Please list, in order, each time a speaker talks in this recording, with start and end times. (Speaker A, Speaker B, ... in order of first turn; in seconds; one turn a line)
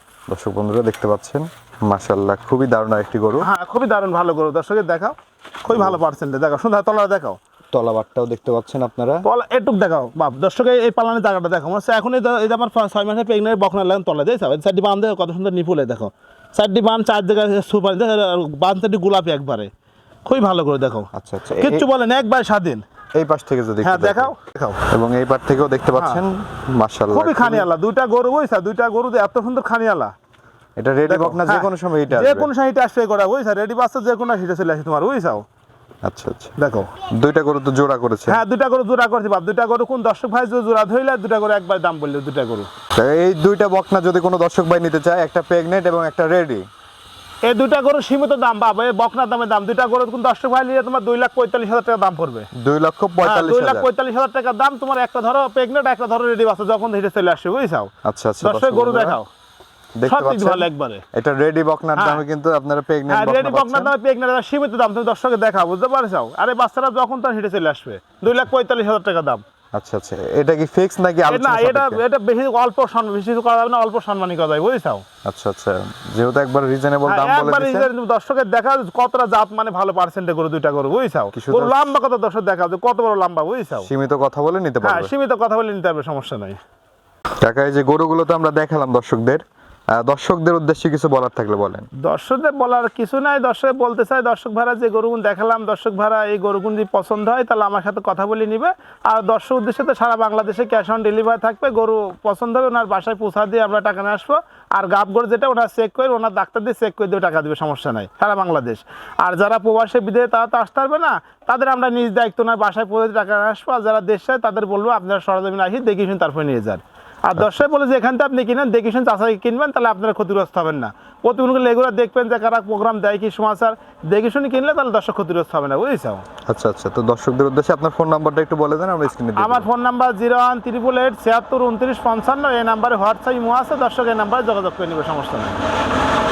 Speaker A: 0.3-3.5
Speaker B: 3.4-7.4
Speaker A: 5.7-6.0
Speaker A: 7.7-9.2
Speaker B: 9.2-19.7
Speaker B: 20.2-21.1
Speaker A: 21.1-21.9
Speaker B: 21.6-22.8
Speaker A: 23.1-24.3
Speaker B: 23.8-24.8
Speaker A: 24.9-27.7
Speaker B: 26.0-26.2
Speaker B: 27.1-30.1
Speaker A: 30.8-32.5
Speaker B: 31.1-35.4
Speaker A: 36.0-36.6
Speaker B: 36.6-36.9
Speaker A: 37.1-38.4
Speaker B: 38.3-42.7
Speaker A: 43.0-46.6
Speaker B: 47.4-52.5
Speaker A: 52.5-53.9
Speaker B: 53.2-59.3
Speaker A: 58.0-59.2
Speaker A: 60.0-63.9
Speaker B: 60.0-61.0
Speaker B: 62.0-62.2
Speaker B: 63.1-69.4
Speaker A: 69.7-72.0
Speaker B: 71.3-75.0
Speaker A: 75.2-77.9
Speaker B: 77.0-83.9
Speaker A: 81.3-82.0
Speaker A: 83.8-85.1
Speaker B: 84.8-86.6
Speaker A: 87.4-89.4
Speaker A: 89.9-91.9
Speaker B: 92.0-126.2
Speaker A: 126.5-129.7
Speaker B: 129.4-135.6